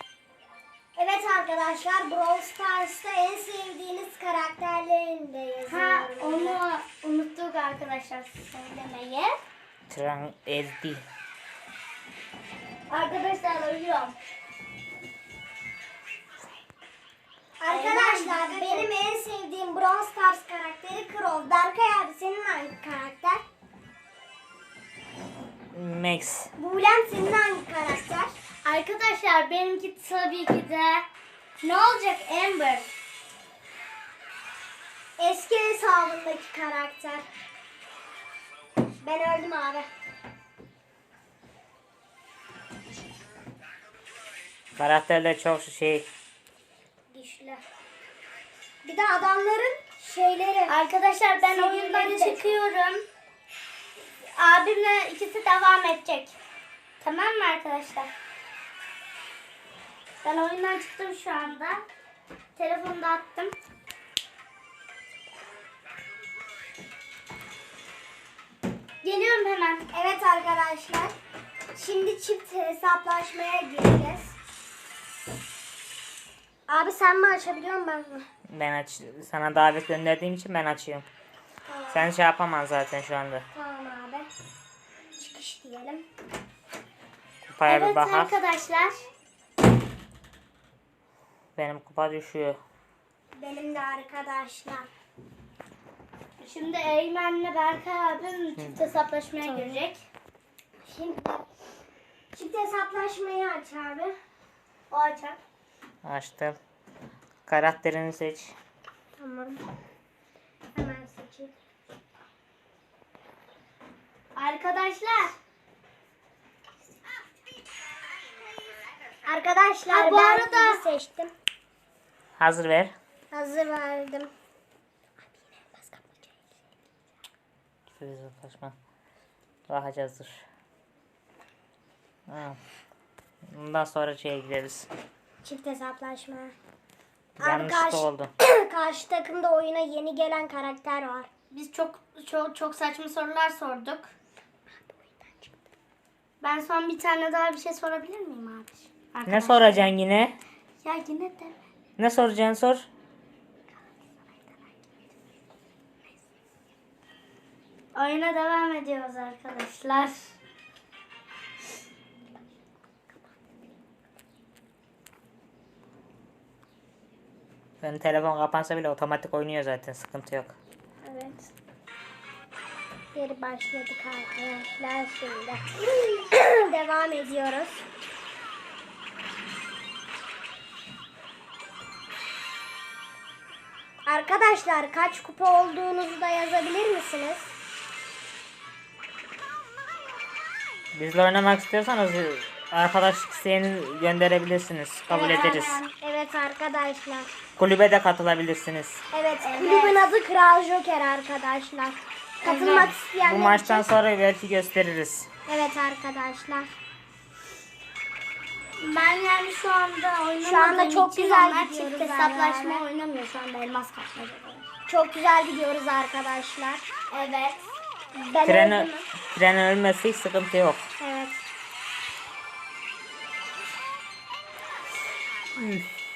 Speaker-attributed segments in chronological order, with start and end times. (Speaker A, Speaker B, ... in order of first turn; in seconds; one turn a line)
Speaker A: 0.9-6.6
Speaker B: 5.7-9.3
Speaker C: 9.9-11.0
Speaker B: 12.9-14.1
Speaker A: 17.6-23.4
Speaker B: 17.7-18.9
Speaker C: 25.7-26.5
Speaker A: 26.6-28.3
Speaker B: 28.6-31.0
Speaker B: 31.6-32.9
Speaker A: 35.2-37.2
Speaker A: 39.0-39.9
Speaker C: 44.8-46.0
Speaker A: 47.1-47.6
Speaker A: 48.8-50.8
Speaker B: 50.7-53.0
Speaker A: 51.4-52.6
Speaker B: 54.4-56.3
Speaker B: 57.0-58.1
Speaker B: 60.2-61.8
Speaker B: 62.5-63.5
Speaker B: 69.0-69.8
Speaker A: 69.9-71.1
Speaker A: 71.7-74.3
Speaker A: 76.7-78.2
Speaker C: 78.5-81.0
Speaker A: 81.7-82.1
Speaker C: 81.9-83.4
Speaker A: 83.5-84.3
Speaker A: 85.2-86.0
Speaker C: 87.5-88.3
Speaker B: 87.7-89.0
Speaker C: 91.6-92.6
Speaker A: 93.3-94.9
Speaker B: 96.4-100.0
Speaker A: 99.4-99.8
Speaker A: 100.8-101.4
Speaker A: 102.3-104.1
Speaker B: 104.9-105.4
Speaker C: 106.0-106.6
Speaker C: 107.5-108.5
Speaker A: 109.2-109.6
Speaker A: 110.7-111.5
Speaker B: 114.3-115.3
Speaker A: 119.2-121.3
Speaker B: 119.9-120.8
Speaker C: 122.4-122.9
Speaker A: 123.3-124.3
Speaker A: 125.4-126.4
Speaker C: 128.0-128.7
Speaker C: 129.7-130.4
Speaker C: 132.3-132.6
Speaker C: 133.5-134.9
Speaker A: 135.4-136.5
Speaker C: 137.4-138.3
Speaker A: 137.4-141.3
Speaker B: 141.5-144.1
Speaker A: 144.8-145.5
Speaker B: 146.4-149.9
Speaker C: 149.2-150.3
Speaker B: 150.8-151.6
Speaker C: 152.0-152.8
Speaker B: 157.9-160.3
Speaker C: 167.8-170.5
Speaker A: 171.0-171.5
Speaker A: 173.1-177.8
Speaker A: 184.1-187.5
Speaker C: 190.9-195.8
Speaker B: 195.1-195.9
Speaker A: 195.1-197.3
Speaker C: 197.6-199.0
Speaker A: 199.1-203.8
Speaker B: 199.4-200.0
Speaker B: 202.4-202.9
Speaker C: 203.2-205.3
Speaker A: 205.5-206.7
Speaker B: 208.8-214.7
Speaker A: 210.4-212.8
Speaker A: 214.9-216.8
Speaker B: 217.1-217.6
Speaker A: 218.1-219.1
Speaker C: 218.4-220.8
Speaker A: 221.0-221.4
Speaker C: 225.6-225.9